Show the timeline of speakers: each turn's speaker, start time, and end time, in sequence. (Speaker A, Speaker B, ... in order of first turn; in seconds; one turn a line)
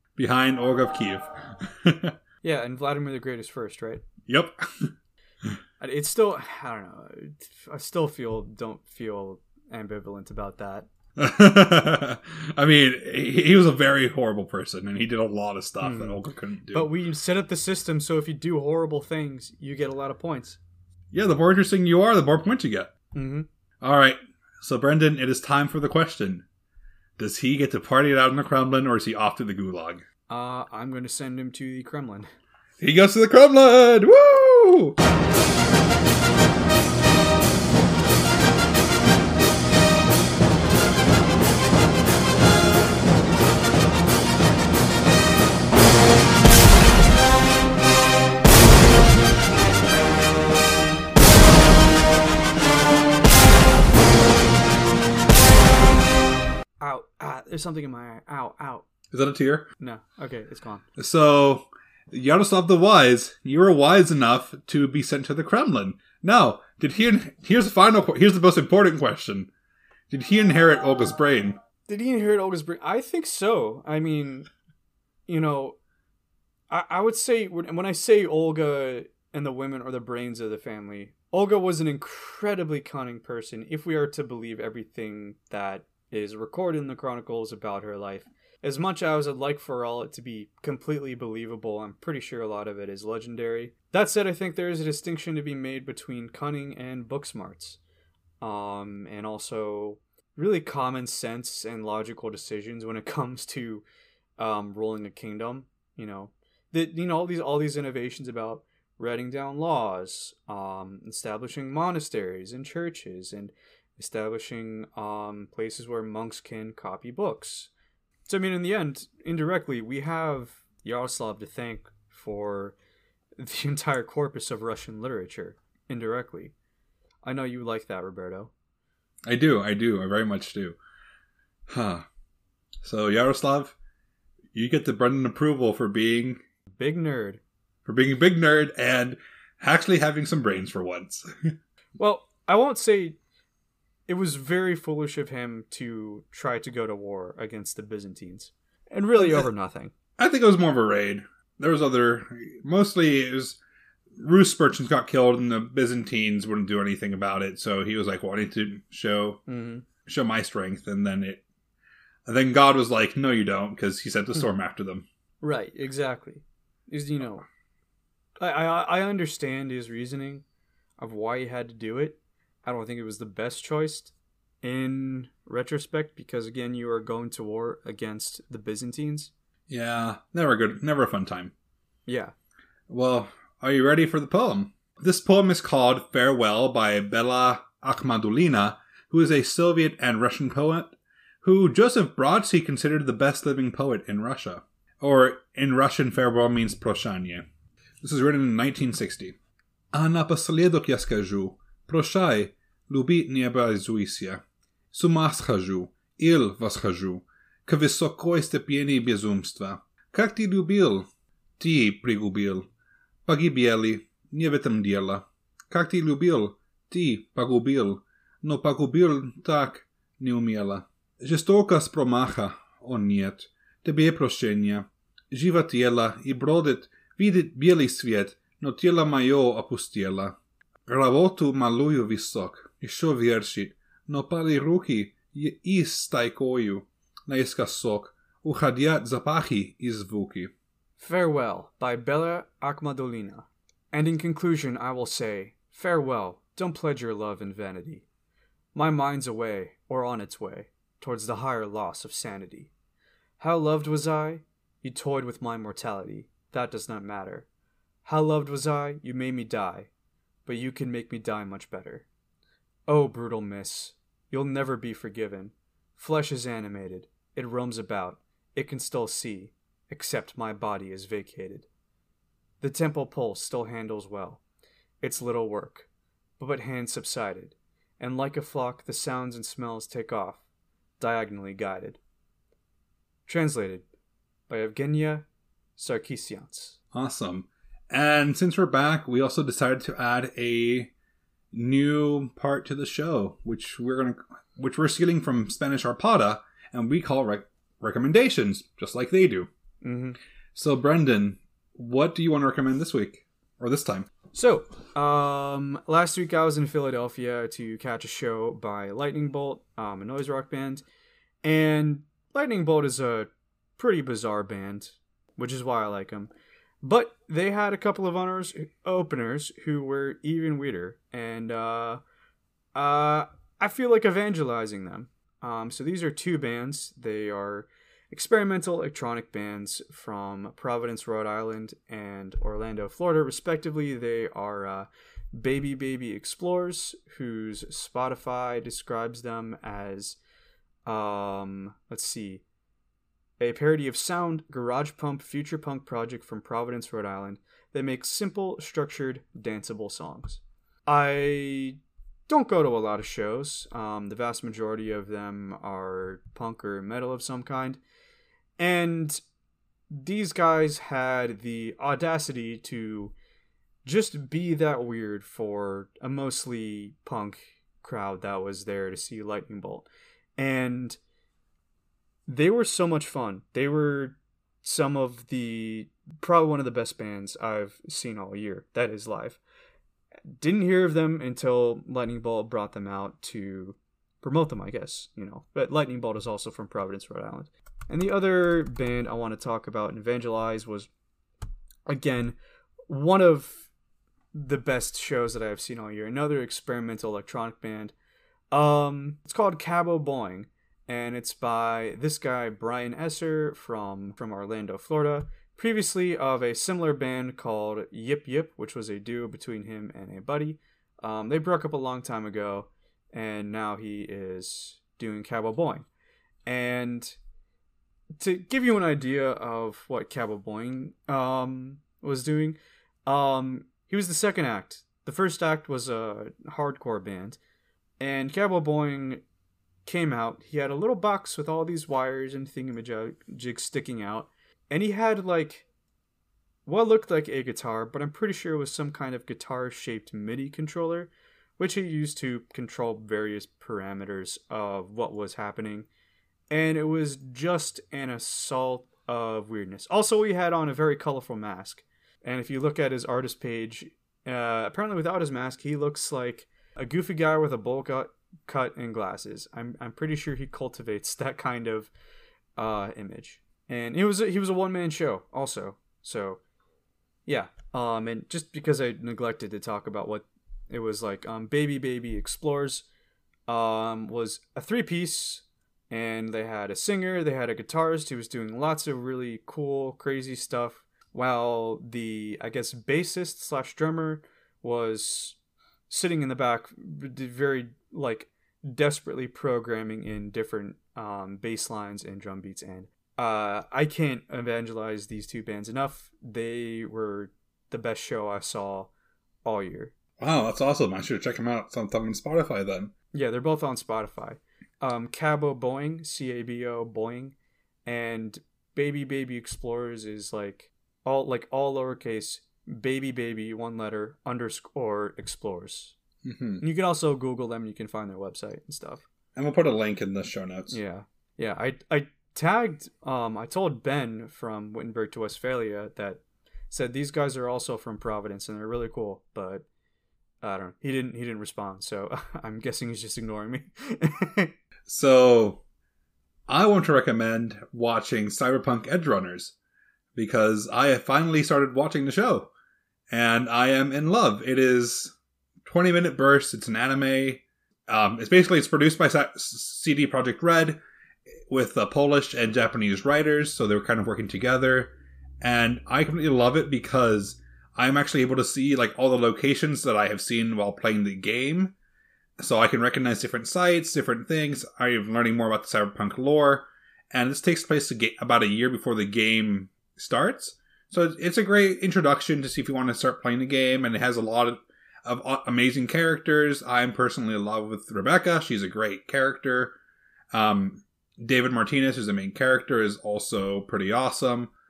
Speaker A: 0.2-2.1
Speaker B: 2.4-4.0
Speaker A: 4.3-4.9
Speaker B: 5.8-10.9
Speaker A: 11.2-16.9
Speaker B: 15.8-16.2
Speaker B: 16.7-20.6
Speaker A: 21.1-22.9
Speaker B: 23.1-23.5
Speaker A: 23.8-26.4
Speaker A: 27.2-30.0
Speaker B: 30.3-32.3
Speaker A: 32.8-35.0
Speaker B: 56.8-58.9
Speaker A: 59.1-59.7
Speaker B: 59.8-60.8
Speaker A: 61.0-69.5
Speaker A: 70.1-71.6
Speaker B: 71.9-74.5
Speaker B: 75.3-75.8
Speaker B: 76.7-97.8
Speaker B: 98.4-103.8
Speaker B: 104.4-117.7
Speaker B: 118.3-122.7
Speaker B: 123.4-126.5
Speaker B: 127.2-128.5
Speaker A: 129.3-130.8
Speaker A: 131.7-132.1
Speaker A: 132.8-133.7
Speaker A: 134.5-136.4
Speaker B: 136.8-137.4
Speaker A: 137.9-141.5
Speaker B: 142.0-143.2
Speaker B: 144.1-149.9
Speaker A: 150.2-153.6
Speaker A: 154.2-159.4
Speaker B: 159.5-159.9
Speaker A: 160.0-161.4
Speaker A: 162.2-165.1
Speaker B: 165.4-167.4
Speaker B: 168.4-170.4
Speaker B: 171.0-179.3
Speaker A: 179.7-181.5
Speaker B: 182.1-182.3
Speaker A: 182.9-197.5
Speaker A: 198.0-199.4
Speaker A: 199.9-211.1
Speaker A: 211.6-212.7
Speaker A: 213.2-240.5
Speaker B: 241.0-248.0
Speaker B: 248.7-252.7
Speaker B: 253.4-257.4
Speaker B: 258.0-259.9
Speaker B: 260.4-262.1
Speaker B: 262.9-271.7
Speaker B: 272.6-274.4
Speaker B: 275.0-275.9
Speaker B: 276.4-280.4
Speaker B: 281.0-282.0
Speaker B: 283.2-283.8
Speaker B: 284.5-285.2
Speaker B: 285.8-286.8
Speaker A: 286.9-290.9
Speaker A: 291.5-299.5
Speaker B: 299.8-300.2
Speaker A: 300.5-304.1
Speaker B: 304.3-310.8
Speaker B: 311.4-316.3
Speaker B: 316.8-322.0
Speaker B: 322.7-340.2
Speaker B: 340.9-342.4
Speaker B: 343.4-357.8
Speaker B: 358.6-359.2
Speaker B: 359.9-363.1
Speaker B: 363.8-369.9
Speaker B: 370.4-371.0
Speaker B: 372.3-379.4
Speaker B: 380.3-390.9
Speaker B: 391.9-392.4
Speaker B: 392.9-393.7
Speaker B: 394.3-397.9
Speaker B: 398.5-415.9
Speaker B: 416.4-417.2
Speaker B: 418.2-427.4
Speaker B: 428.0-429.2
Speaker B: 429.8-435.7
Speaker B: 436.7-445.9
Speaker B: 446.5-461.9
Speaker B: 462.6-466.4
Speaker B: 467.2-472.9
Speaker B: 473.5-485.4
Speaker B: 485.9-498.9
Speaker B: 499.4-499.9
Speaker A: 500.2-502.9
Speaker B: 503.1-516.0
Speaker A: 516.2-516.6
Speaker B: 516.6-519.0
Speaker A: 519.4-520.8
Speaker B: 520.7-529.6
Speaker B: 530.4-534.5
Speaker A: 534.9-535.6
Speaker A: 536.5-539.5
Speaker A: 540.1-542.5
Speaker A: 543.1-550.8
Speaker A: 551.5-561.7
Speaker A: 562.4-579.8
Speaker A: 580.3-584.5